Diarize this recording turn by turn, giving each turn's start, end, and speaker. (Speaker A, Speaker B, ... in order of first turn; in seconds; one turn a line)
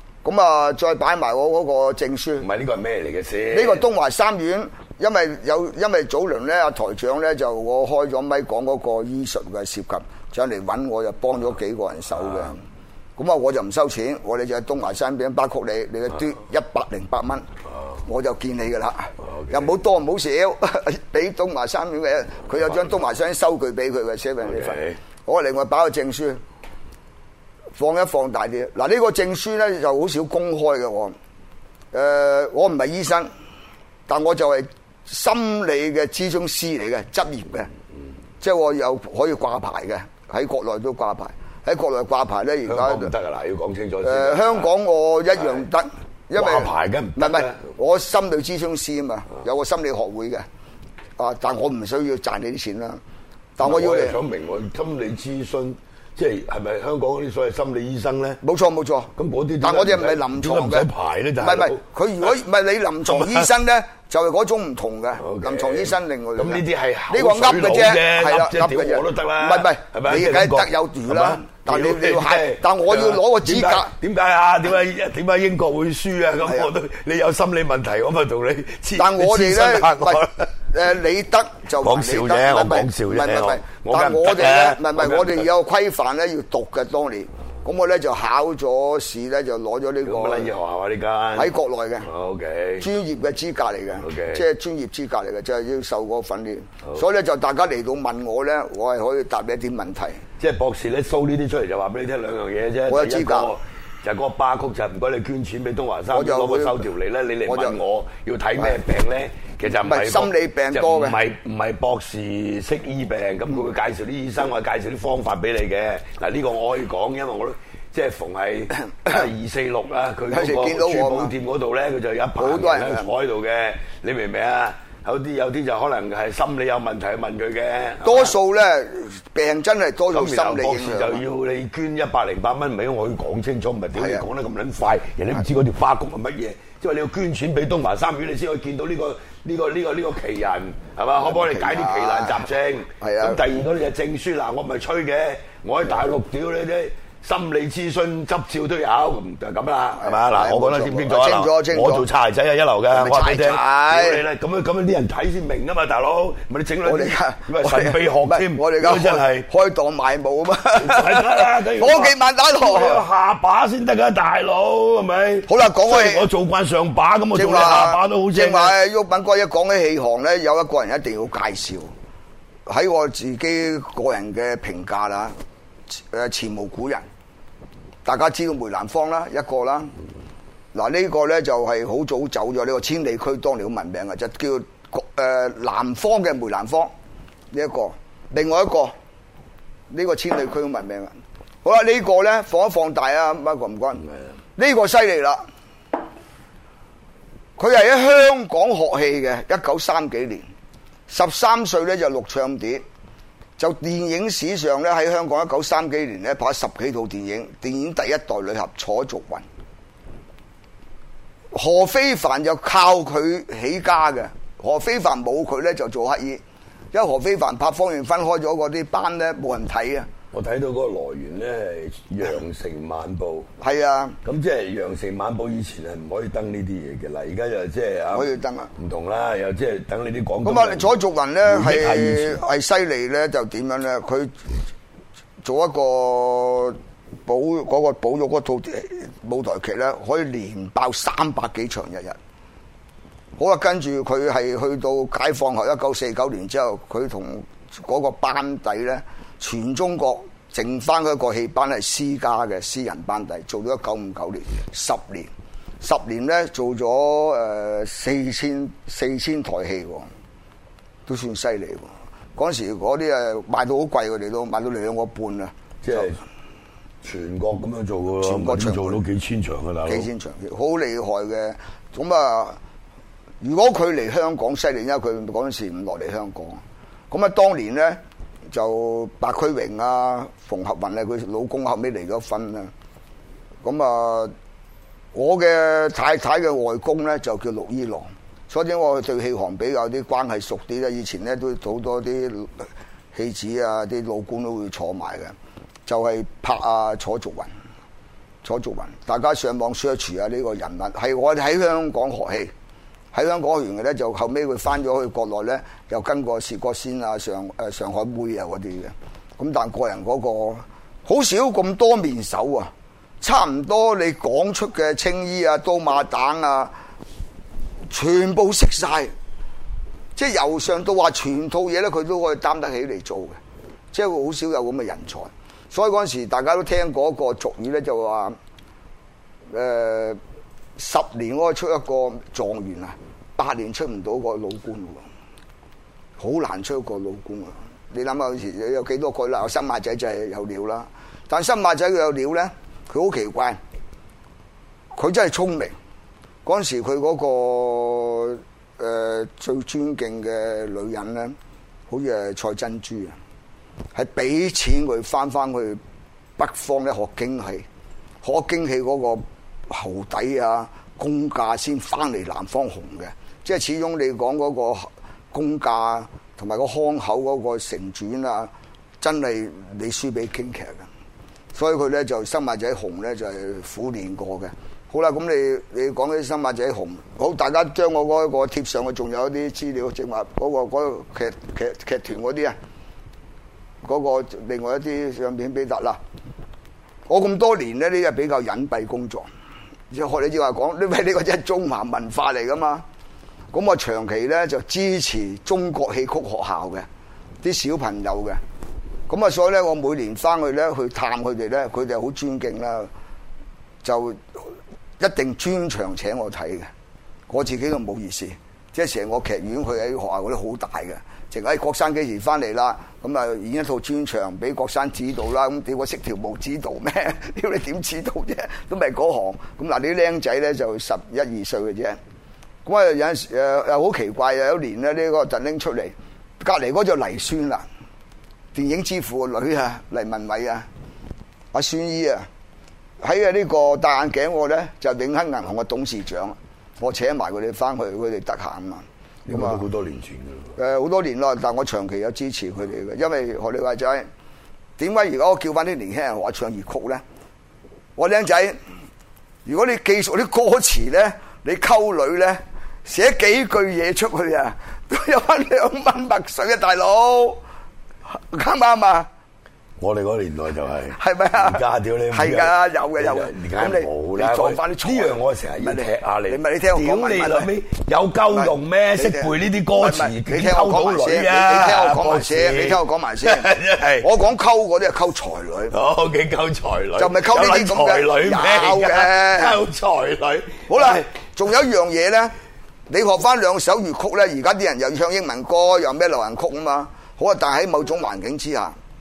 Speaker A: 0.2-2.5
Speaker B: 2.4-3.9
Speaker A: 3.5-12.6
Speaker A: 13.2-17.4
Speaker A: 18.1-26.4
Speaker B: 19.2-19.6
Speaker B: 24.4-25.0
Speaker A: 27.8-31.1
Speaker A: 31.9-33.3
Speaker A: 34.1-37.7
Speaker A: 38.4-43.1
Speaker B: 42.6-44.7
Speaker A: 44.0-50.5
Speaker B: 46.3-47.6
Speaker A: 51.2-53.0
Speaker A: 53.6-54.2
Speaker B: 53.6-58.4
Speaker A: 58.4-73.9
Speaker B: 59.1-61.8
Speaker B: 63.1-63.5
Speaker B: 65.2-80.5
Speaker A: 76.4-76.7
Speaker A: 79.0-90.5
Speaker B: 81.8-85.5
Speaker B: 90.0-92.9
Speaker A: 91.3-92.1
Speaker A: 92.8-100.2
Speaker B: 94.0-94.4
Speaker B: 100.4-128.3
Speaker A: 102.9-103.5
Speaker A: 106.1-106.9
Speaker A: 107.5-107.8
Speaker A: 109.7-111.2
Speaker A: 120.3-121.3
Speaker A: 122.4-123.1
Speaker A: 128.0-131.2
Speaker B: 130.1-159.5
Speaker A: 133.9-134.2
Speaker A: 141.2-142.4
Speaker A: 143.0-143.4
Speaker A: 150.0-152.0
Speaker A: 152.9-154.2
Speaker A: 156.8-163.0
Speaker B: 160.8-168.8
Speaker A: 165.5-166.3
Speaker A: 167.3-171.9
Speaker A: 172.7-175.3
Speaker A: 175.9-177.0
Speaker A: 178.0-179.9
Speaker A: 180.7-186.9
Speaker A: 187.5-188.9
Speaker A: 189.9-191.1
Speaker A: 191.6-195.4
Speaker A: 197.6-200.4
Speaker A: 201.1-202.8
Speaker A: 203.6-209.4
Speaker A: 211.5-216.4
Speaker A: 216.9-220.1
Speaker B: 220.3-223.5
Speaker A: 223.6-224.2
Speaker B: 224.2-232.4
Speaker A: 228.1-228.7
Speaker A: 230.4-234.5
Speaker A: 235.4-242.2
Speaker A: 243.4-255.3
Speaker A: 255.8-260.1
Speaker A: 261.1-266.2
Speaker B: 265.8-266.2
Speaker B: 267.0-270.1
Speaker A: 268.2-269.0
Speaker A: 269.9-272.6
Speaker A: 273.4-282.7
Speaker A: 283.6-284.3
Speaker A: 285.1-295.3
Speaker A: 295.9-297.5
Speaker A: 298.4-302.5
Speaker A: 303.1-316.7
Speaker A: 317.9-319.1
Speaker A: 320.2-323.4
Speaker A: 323.9-328.4
Speaker A: 329.5-330.2
Speaker A: 330.8-335.0
Speaker A: 336.2-343.6
Speaker A: 344.9-345.7
Speaker A: 346.4-351.4
Speaker A: 351.9-353.2
Speaker A: 353.9-355.8
Speaker A: 356.4-357.7
Speaker A: 358.2-370.9
Speaker A: 371.5-382.6
Speaker A: 383.8-386.0
Speaker A: 387.1-389.2
Speaker A: 389.9-392.9
Speaker A: 393.5-396.9
Speaker A: 397.4-398.4
Speaker A: 399.1-402.9
Speaker A: 403.8-404.5
Speaker A: 405.0-406.7
Speaker A: 407.3-422.0
Speaker A: 422.6-427.6
Speaker A: 428.5-430.7
Speaker A: 431.5-432.3
Speaker A: 433.0-439.6
Speaker B: 439.2-440.5
Speaker A: 440.6-444.1
Speaker A: 444.8-447.0
Speaker A: 448.0-448.6
Speaker A: 449.4-457.4
Speaker A: 458.1-459.1
Speaker B: 459.8-474.1
Speaker A: 460.9-461.6
Speaker A: 462.1-467.5
Speaker A: 468.3-475.8
Speaker B: 475.7-481.1
Speaker A: 477.0-479.6
Speaker A: 480.7-482.3
Speaker A: 482.9-488.8